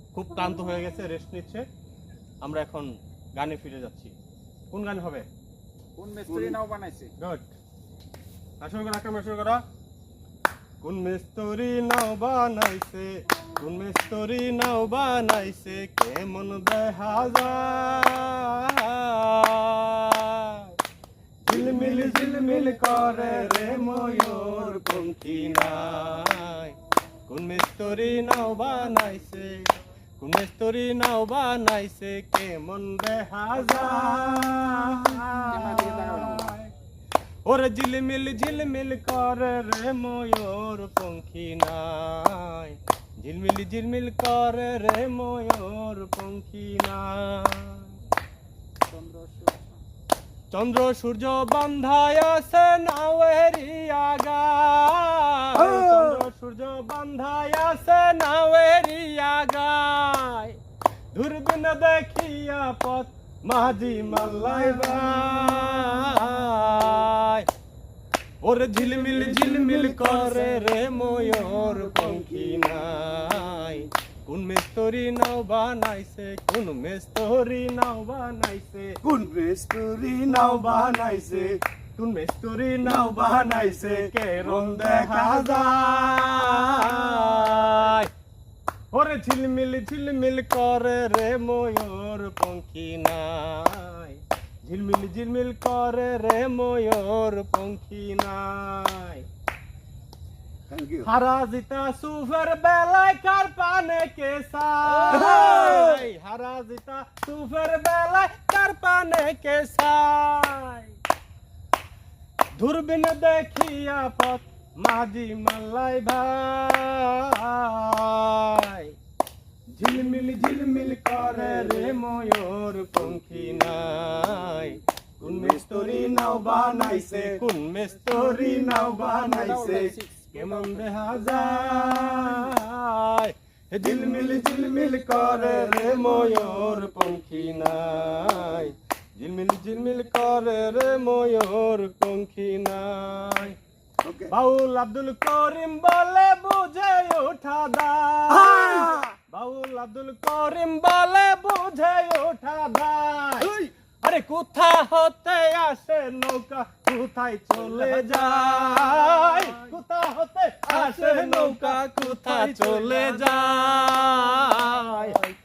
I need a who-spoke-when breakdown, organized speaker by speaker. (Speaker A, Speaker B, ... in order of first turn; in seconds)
Speaker A: 0.1-1.6, 2.4-4.1, 4.7-5.2, 7.2-7.5, 8.6-9.6, 10.8-20.7, 21.4-26.8, 27.3-29.7, 30.2-36.7, 37.5-47.9, 50.5-60.6, 61.1-67.5, 68.4-79.0, 80.3-88.1, 88.9-99.2, 101.0-110.9, 112.5-119.0, 119.7-129.4, 130.3-143.6, 144.3-165.2
Speaker B: 6.0-7.1, 35.5-36.5, 48.9-49.8, 129.2-130.8
Speaker C: 6.3-6.6, 21.6-22.4, 55.6-56.2, 69.1-70.5, 71.6-72.6, 79.0-81.5, 83.0-85.7, 100.7-101.1, 105.1-106.0, 125.2-127.4, 128.4-129.9, 133.8-136.0, 144.0-144.3, 148.3-149.1, 153.4-153.7, 157.8-159.5, 160.7-163.2